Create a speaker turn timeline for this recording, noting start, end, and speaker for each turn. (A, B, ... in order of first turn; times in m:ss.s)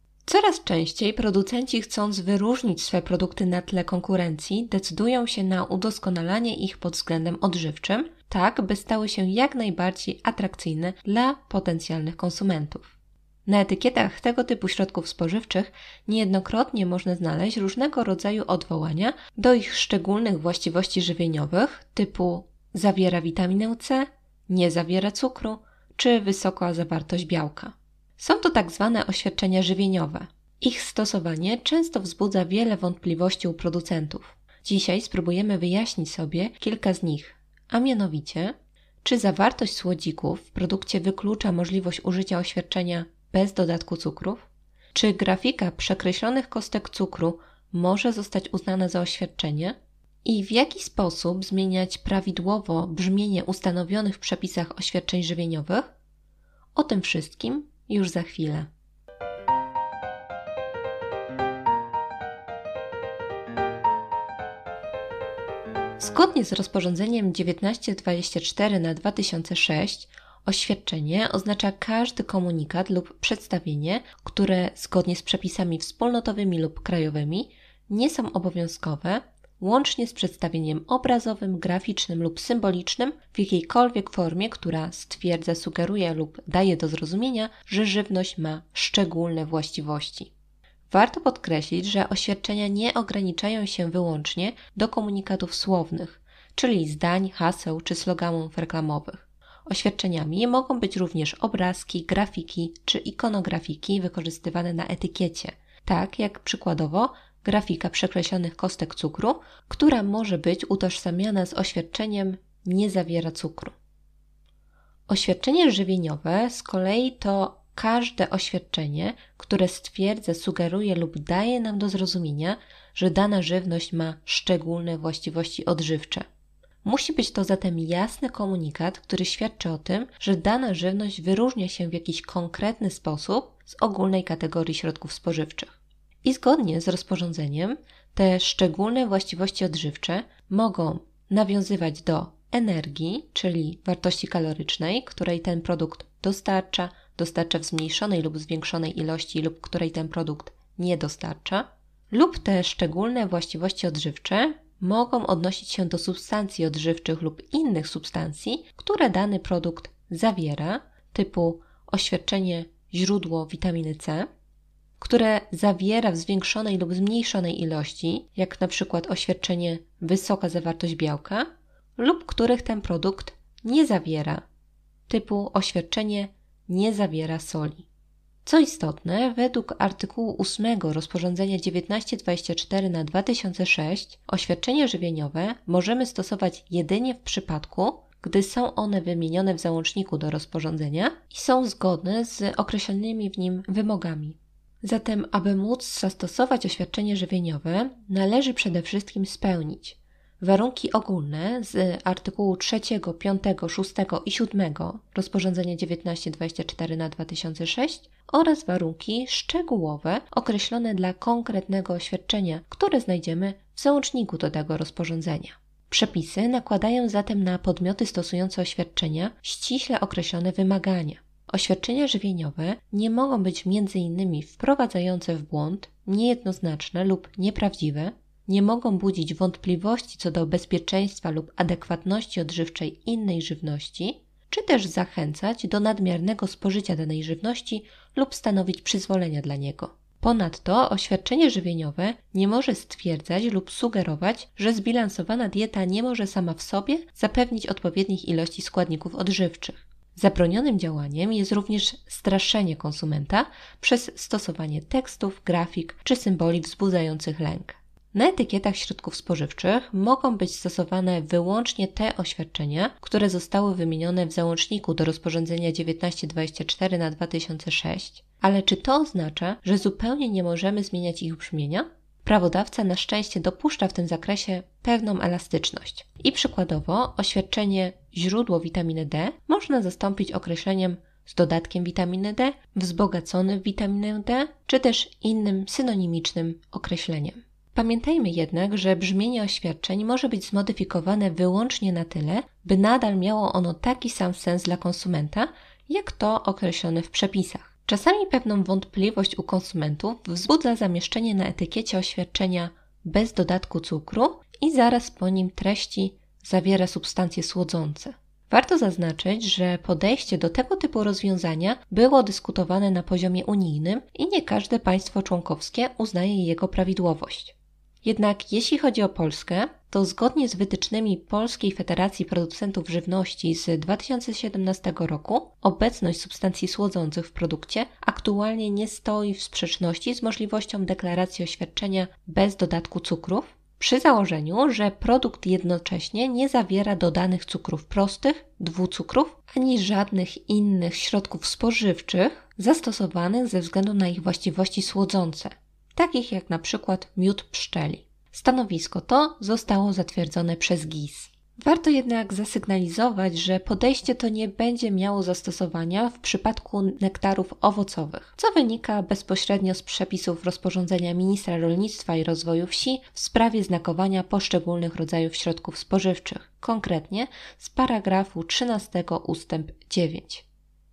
0:00.2-0:12.9 A
0:13.4-0:55.9 A
0:56.7-0:58.7 A
1:06.0-1:30.3 A
1:30.9-1:53.7 A
1:55.1-2:06.2 A
2:06.8-2:44.3 A
2:45.0-2:54.4 A
2:55.1-2:57.9 A
2:58.4-6:10.4 A